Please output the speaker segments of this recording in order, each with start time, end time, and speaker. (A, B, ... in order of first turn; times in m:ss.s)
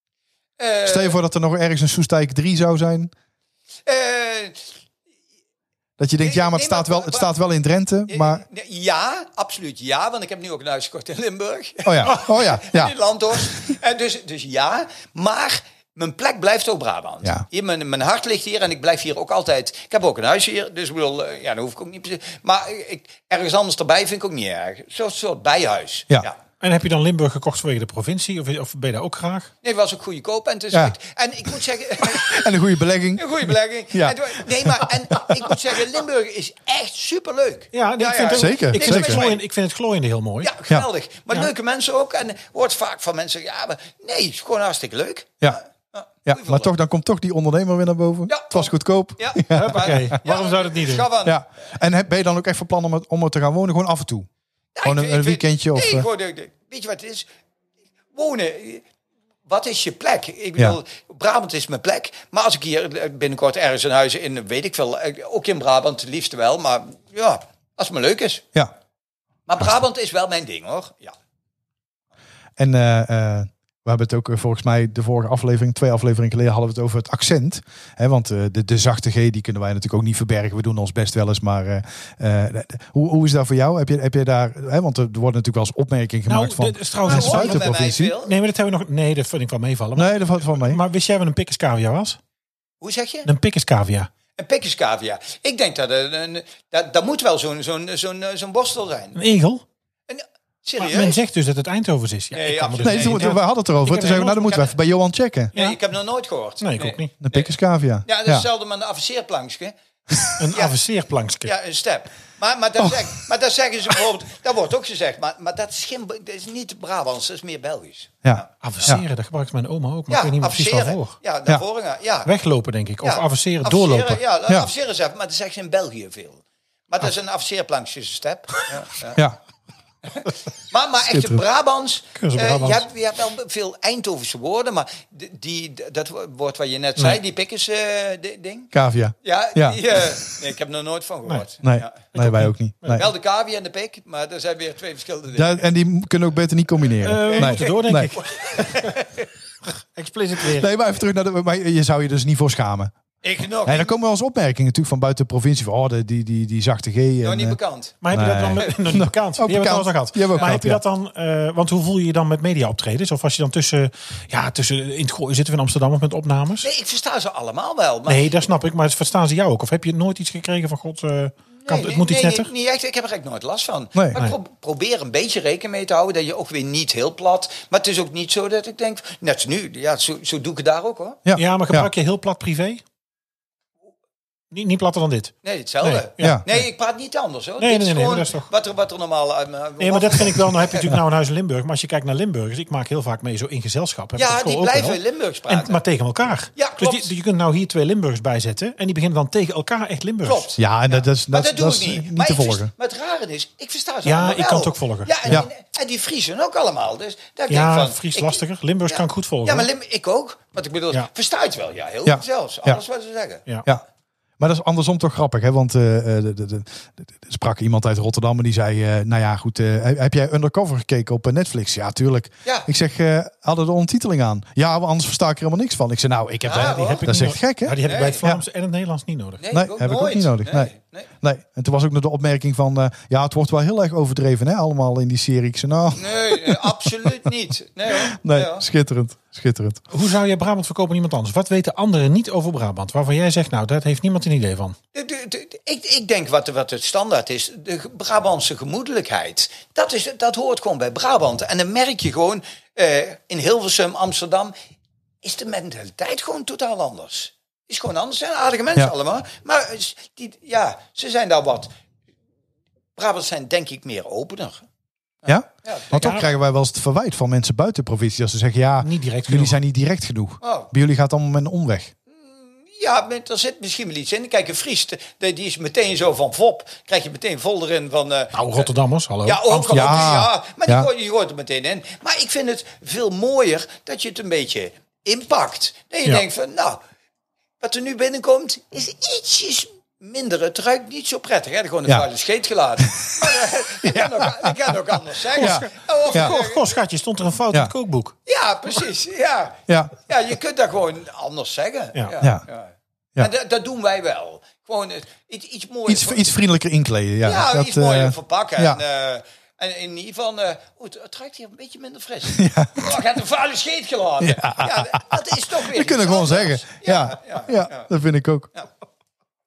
0:00.6-0:01.2 A
0:00.8-0:03.1 B
0:03.9-0:04.6 A
0:06.0-0:08.4 B
0:06.2-0:07.3 A
0:08.1-0:26.4 A
0:11.8-0:12.9 B
0:26.6-0:29.5 C
0:29.6-0:32.5 A
0:32.0-0:35.6 B
0:33.2-0:39.4 A
0:37.7-0:40.5 C
0:38.4-0:39.2 B
0:40.4-0:46.7 A
0:46.3-0:50.2 B
0:48.3-0:51.4 A
0:49.5-0:51.1 C
0:51.2-0:54.3 B
0:54.8-0:57.3 A
0:54.8-0:56.1 B
0:58.1-0:58.8 A
0:59.5-1:08.4 A
1:09.5-1:11.1 A
1:12.6-1:28.2 B
1:26.3-1:32.2 C
1:27.0-1:28.4 A
1:30.0-1:30.8 B
1:32.8-1:33.3 A
1:33.3-1:34.1 C
1:34.4-1:39.2 A
1:39.2-1:39.6 C
1:40.1-1:41.2 A
1:40.8-1:44.5 C
1:42.3-1:43.4 A
1:42.8-1:45.5 B
1:44.0-1:44.7 A
1:45.5-1:47.5 A
1:46.6-1:47.1 C
1:47.2-1:48.5 B
1:48.1-1:49.7 A
1:50.4-1:51.5 C
1:50.5-1:50.8 A
1:51.4-1:58.5 A
1:52.8-1:53.1 B
1:58.2-1:59.0 B
1:58.6-2:01.2 C
2:00.1-2:02.3 A
2:02.2-2:04.2 C
2:03.0-2:09.2 A
2:10.1-2:18.7 A
2:11.1-2:11.4 B
2:12.2-2:12.8 C
2:18.7-2:20.0 B
2:19.2-2:22.1 A
2:21.6-2:23.1 B
2:22.1-2:23.0 C
2:22.9-2:25.6 A
2:25.4-2:28.1 B
2:27.0-2:29.0 C
2:27.3-2:29.3 A
2:30.0-2:30.7 C
2:30.5-2:32.9 B
2:33.2-2:34.0 A
2:33.6-2:37.6 B
2:37.2-2:38.0 A
2:38.0-2:46.7 C
2:38.1-2:40.8 B
2:46.6-2:48.4 A
2:48.1-2:52.5 C
2:51.6-3:01.2 A
3:01.2-3:01.9 B
3:01.4-3:02.8 C
3:04.5-3:06.7 C
3:05.4-3:10.9 A
3:07.6-3:08.5 C
3:09.8-3:20.5 C
3:14.2-3:15.8 A
3:16.6-3:17.1 A
3:20.2-3:33.4 A
3:20.6-3:22.7 B
3:24.0-3:25.4 C
3:27.5-3:29.7 C
3:32.0-3:32.8 B
3:34.4-3:48.4 B
3:46.4-3:47.1 A
3:46.6-3:49.4 C
3:47.8-3:48.3 A
3:49.4-3:51.1 A
3:49.5-3:57.3 B
3:56.0-3:58.6 A
3:57.9-3:59.8 B
3:59.9-4:04.8 C
4:05.0-4:14.5 A
4:15.2-4:21.7 A
4:23.0-4:24.6 A
4:25.2-4:26.2 A
4:25.3-4:31.9 B
4:25.9-4:26.3 C
4:28.8-4:29.6 C
4:30.4-4:30.7 A
4:32.1-4:38.7 A
4:38.3-4:40.1 C
4:39.2-4:46.8 A
4:39.7-4:40.9 B
4:47.6-4:56.8 A
4:52.8-4:54.8 B
4:55.3-4:58.2 C
4:55.4-4:56.4 B
4:58.3-5:06.2 A
4:59.7-5:00.1 B
5:02.2-5:02.4 B
5:05.9-5:08.8 B
5:07.2-5:17.9 A
5:12.3-5:13.0 B
5:14.2-5:18.5 B